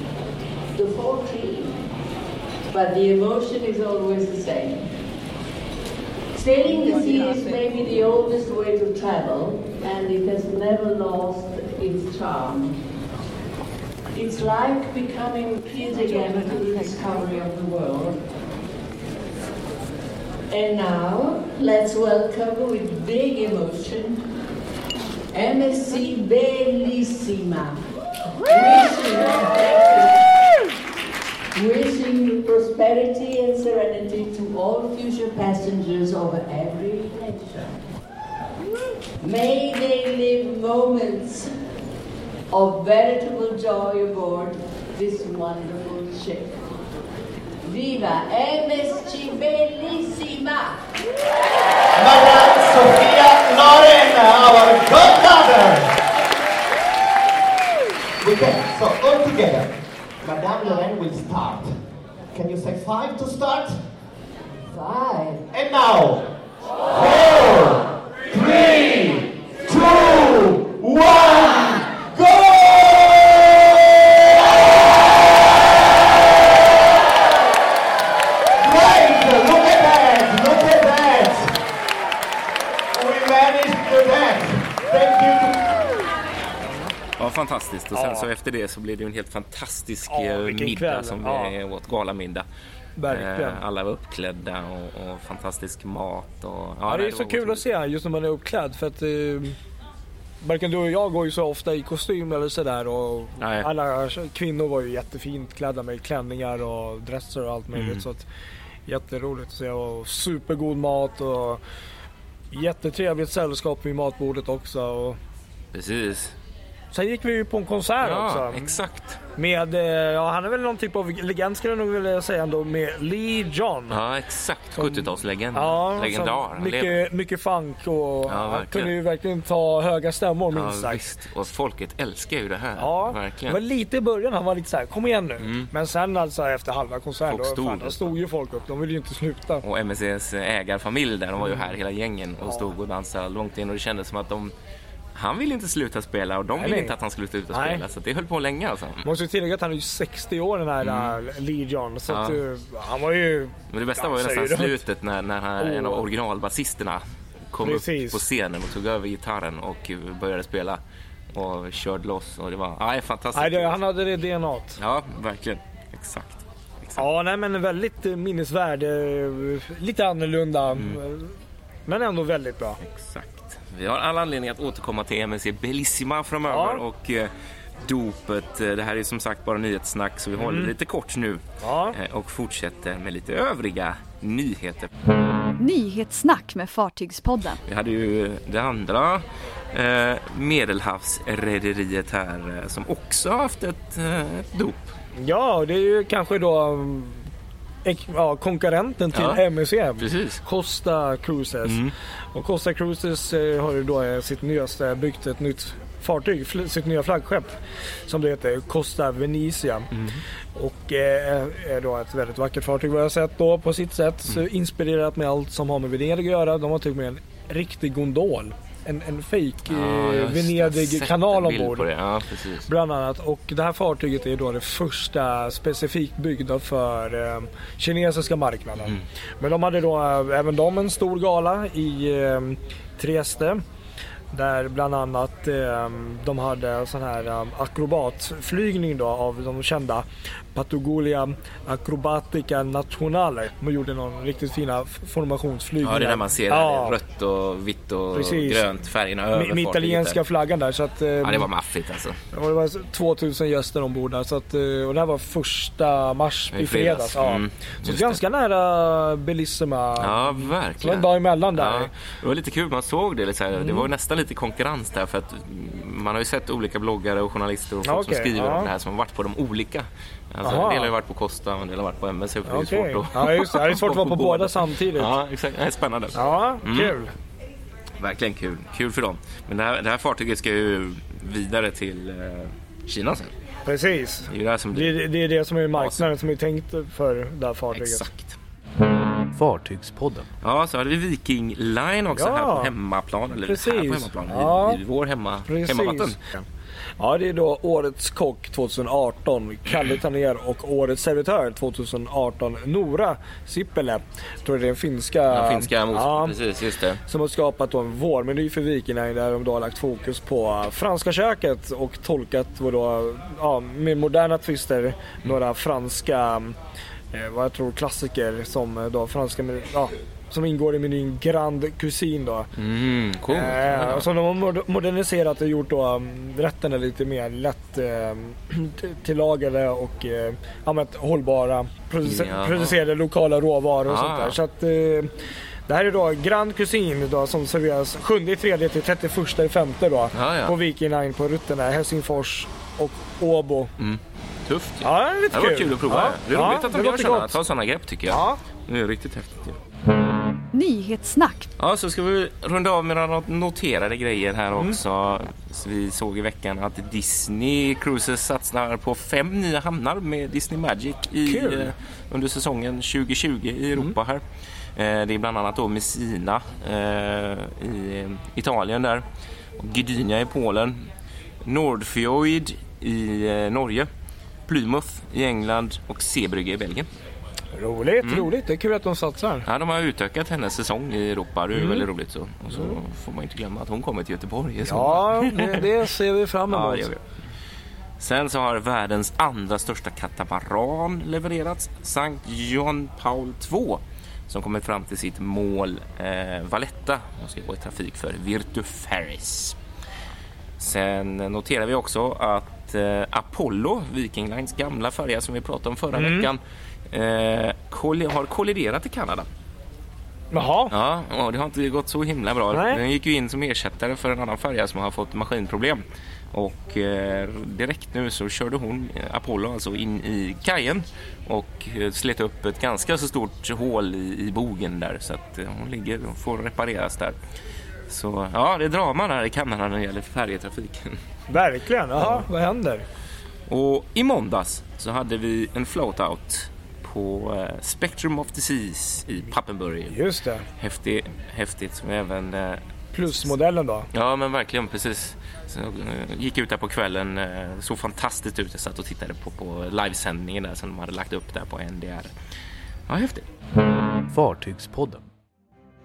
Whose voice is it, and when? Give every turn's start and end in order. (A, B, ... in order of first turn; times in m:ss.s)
0:00.7-0:01.8 A
0:02.7-0:04.8 A
0:06.3-0:12.8 A
0:14.1-0:18.2 A
0:20.5-0:24.2 A
0:25.3-0:27.8 A
0:28.5-0:30.2 A
0:31.5-0:37.8 A
0:39.2-0:41.5 A
0:42.5-0:46.6 A
0:47.6-0:50.8 A
0:51.9-0:55.9 B
0:58.2-0:59.7 B
1:00.2-1:01.7 B
1:02.3-1:03.7 B
1:04.7-1:05.5 A
1:05.5-1:06.2 B
1:06.9-1:14.6 B
1:18.6-1:21.5 B
1:22.9-1:25.5 B
1:27.2-1:32.4 C
1:27.9-1:28.3 D
1:30.1-1:31.5 D
1:33.0-1:33.6 D
1:33.1-1:37.6 C
1:36.8-1:39.6 D
1:40.4-1:48.2 D
1:43.4-1:43.7 C
1:47.7-1:48.0 C
1:48.9-1:51.6 D
1:52.5-1:55.2 D
1:55.7-1:56.3 C
1:56.9-1:58.7 D
1:58.0-1:59.2 C
1:59.3-2:04.0 D
2:03.9-2:07.0 C
2:04.8-2:11.1 D
2:08.3-2:08.9 C
2:10.5-2:13.6 C
2:12.8-2:19.6 D
2:15.4-2:15.7 C
2:17.3-2:18.2 C
2:19.6-2:24.5 C
2:22.4-2:22.7 D
2:25.1-2:29.1 C
2:26.6-2:26.9 D
2:27.5-2:27.8 D
2:29.0-2:34.8 D
2:30.8-2:31.2 C
2:32.1-2:32.4 C
2:33.7-2:40.8 C
2:35.6-2:36.0 D
2:37.6-2:38.2 D
2:41.3-2:43.8 C
2:43.3-2:44.8 D
2:44.8-2:47.0 C
2:47.0-2:52.8 D
2:50.7-2:51.0 C
2:52.8-2:57.3 C
2:56.4-2:56.8 D
2:57.8-3:04.9 C
3:00.4-3:00.7 D
3:01.6-3:02.0 D
3:05.6-3:07.6 E
3:07.7-3:14.9 C
3:15.2-3:17.2 D
3:17.8-3:27.6 D
3:19.1-3:19.4 C
3:20.0-3:20.4 C
3:21.6-3:21.9 C
3:28.1-3:29.9 D
3:30.0-3:30.2 C
3:30.5-3:41.9 D
3:39.6-3:42.7 C
3:42.6-3:53.6 D
3:54.3-4:07.0 D
4:05.8-4:10.2 C
4:08.1-4:08.7 D
4:09.3-4:11.5 D
4:11.2-4:12.2 C
4:12.3-4:21.9 D
4:16.5-4:18.2 C
4:20.0-4:36.9 C
4:23.6-4:23.9 D
4:27.8-4:28.7 D
4:30.4-4:30.9 D
4:32.4-4:35.1 D
4:36.1-4:37.1 D
4:38.0-4:43.3 C
4:43.6-4:48.1 D
4:44.3-4:45.0 C
4:45.7-4:46.0 C
4:47.7-4:48.4 C
4:49.3-4:50.3 F
4:50.4-4:56.2 C
4:52.1-4:52.7 D
4:53.4-4:54.8 D
4:55.4-4:56.4 D
4:57.0-5:06.4 D
5:05.3-5:07.0 C
5:07.0-5:16.6 D
5:17.1-5:22.5 D
5:22.6-5:24.1 C
5:23.3-5:35.1 D
5:32.0-5:32.8 C
5:33.8-5:34.4 C
5:35.7-5:43.7 D
5:40.1-5:40.5 C
5:43.8-5:49.6 C
5:44.8-5:47.4 D
5:48.1-5:48.4 D
5:50.5-5:51.5 E
5:51.6-6:04.2 C
6:01.2-6:01.7 D
6:04.8-6:09.0 C
6:09.6-6:10.8 C
6:11.4-6:13.9 C
6:14.5-6:16.8 C
6:17.5-6:19.4 D
6:18.0-6:18.3 C
6:19.4-6:25.7 C
6:21.5-6:21.8 D
6:22.5-6:22.8 D
6:24.6-6:27.0 D
6:26.5-6:27.0 C
6:28.0-6:39.6 C
6:40.6-6:46.4 C
6:45.9-6:46.3 D
6:46.9-6:49.2 C
6:50.3-6:50.7 D
6:50.7-6:55.8 C
6:52.5-6:52.8 D
6:56.3-7:07.2 C
7:07.9-7:11.0 C
7:11.3-7:12.8 D
7:12.0-7:12.2 C
7:13.5-7:20.0 C
7:19.9-7:20.4 D
7:20.6-7:23.3 C
7:22.9-7:23.9 D
7:23.9-7:32.1 C
7:32.9-7:33.3 C
7:34.1-7:35.0 F